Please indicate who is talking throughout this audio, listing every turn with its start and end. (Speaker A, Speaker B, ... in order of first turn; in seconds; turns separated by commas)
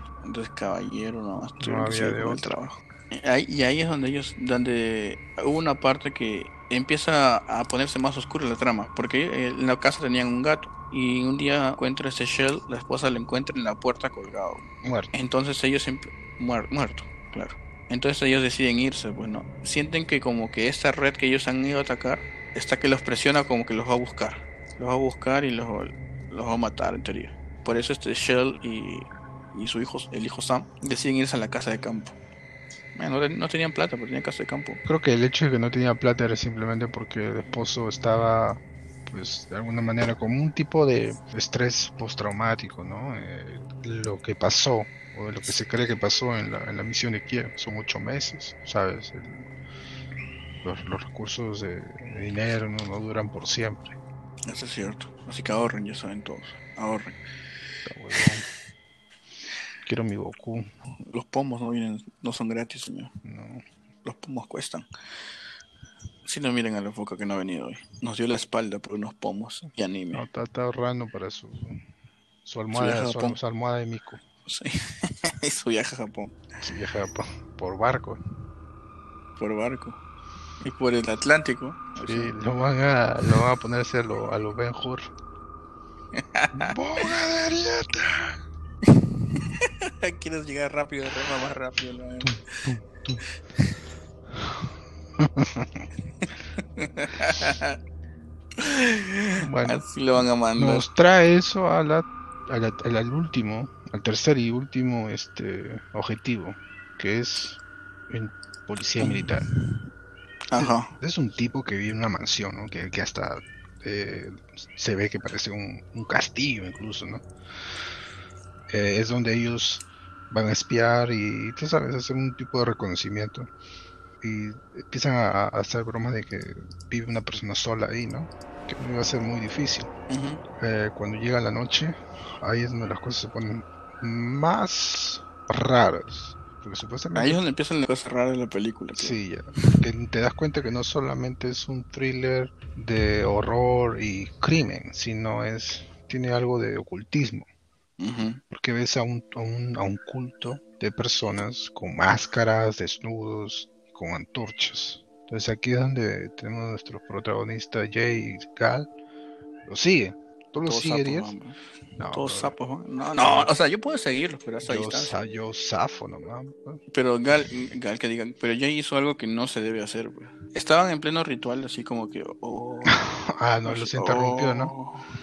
Speaker A: 0.2-32.1, Speaker B: 1.6-2.5, Speaker B: 14.8-15.1, Speaker A: 33.0-34.8, Speaker B: 34.9-49.5, Speaker B: 50.6-53.9, Speaker A: 54.5-57.2, Speaker B: 57.9-58.5, Speaker B: 59.8-60.7, Speaker A: 61.1-63.1, Speaker B: 63.2-63.6, Speaker A: 64.0-64.9, Speaker A: 66.2-70.2, Speaker B: 70.1-71.8, Speaker B: 72.5-74.2, Speaker A: 72.7-73.4, Speaker A: 74.5-76.4, Speaker B: 76.6-78.2, Speaker A: 79.4-80.0, Speaker A: 80.6-82.4, Speaker B: 82.0-85.1, Speaker A: 86.1-87.1, Speaker B: 86.6-88.4, Speaker A: 88.9-92.7, Speaker B: 92.2-93.2, Speaker B: 95.2-95.8, Speaker A: 96.5-97.8, Speaker A: 98.6-100.9, Speaker B: 99.4-99.8, Speaker B: 100.6-109.5, Speaker A: 109.0-109.4, Speaker A: 110.5-110.9, Speaker B: 110.6-117.2, Speaker B: 118.7-123.5, Speaker B: 124.2-129.9, Speaker A: 130.1-130.4, Speaker B: 130.6-137.4, Speaker A: 137.2-139.8, Speaker B: 139.0-147.5, Speaker A: 148.0-148.4, Speaker B: 148.5-158.9, Speaker B: 159.7-161.3, Speaker A: 160.6-161.6, Speaker B: 162.0-162.5, Speaker A: 162.1-165.2, Speaker B: 163.2-163.5, Speaker B: 164.6-166.8, Speaker A: 166.9-173.0, Speaker B: 172.9-174.8, Speaker A: 173.7-175.1